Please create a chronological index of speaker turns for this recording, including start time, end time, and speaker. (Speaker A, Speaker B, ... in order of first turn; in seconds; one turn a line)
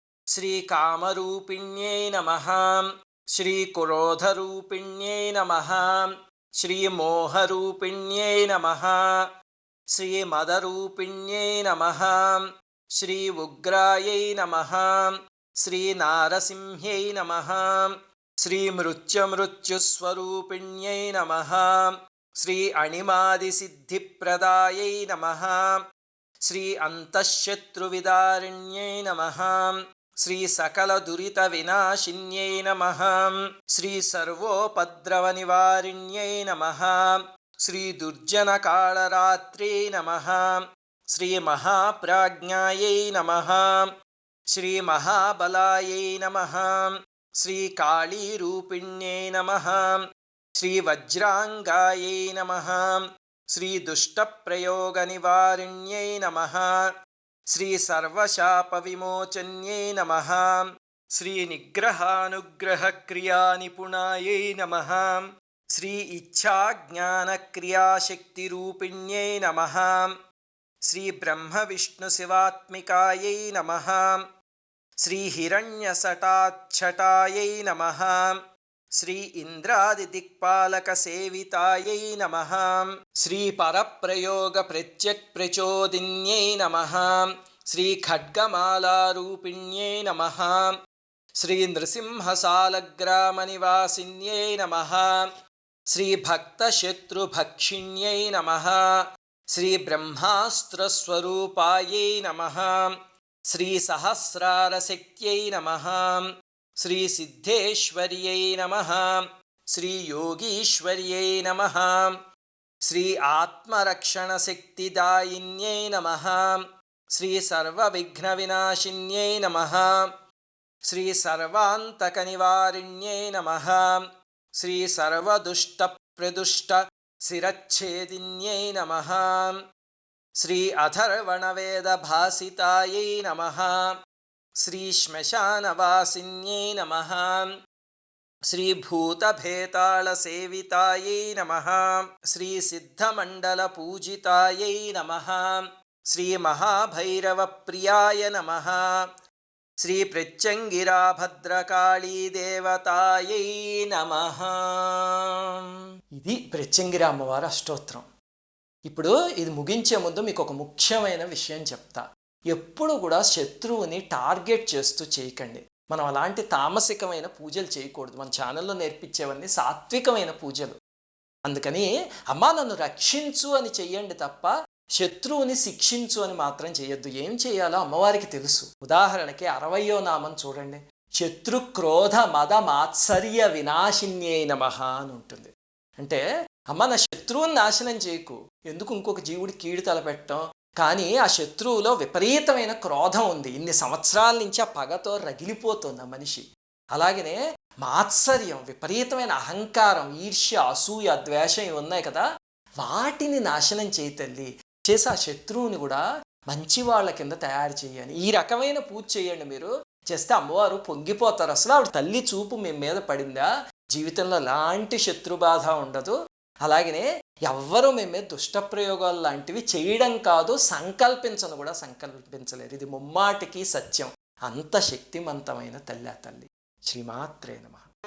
Speaker A: 0.3-6.1
Speaker A: 6.6-9.1
Speaker A: 9.9-12.4
Speaker A: 13.0-25.8
Speaker A: 26.4-40.5
Speaker A: 41.1-43.9
Speaker A: 44.5-50.0
Speaker A: 50.5-56.9
Speaker A: 57.5-70.1
Speaker A: 70.8-74.2
Speaker A: 75.0-78.4
Speaker A: 79.0-90.7
Speaker A: 91.4-95.3
Speaker A: 95.9-98.9
Speaker A: 99.5-102.9
Speaker A: 103.5-106.2
Speaker A: 106.8-112.1
Speaker A: 112.8-116.6
Speaker A: 117.1-120.1
Speaker A: 120.8-124.0
Speaker A: 124.6-129.6
Speaker A: 130.4-133.8
Speaker A: 134.6-137.5
Speaker A: 138.5-148.8
Speaker A: 149.8-155.6
Speaker A: 156.2-158.1
Speaker A: 158.9-170.8
Speaker A: 171.4-186.2
Speaker A: 186.7-202.2
Speaker A: 202.8-227.9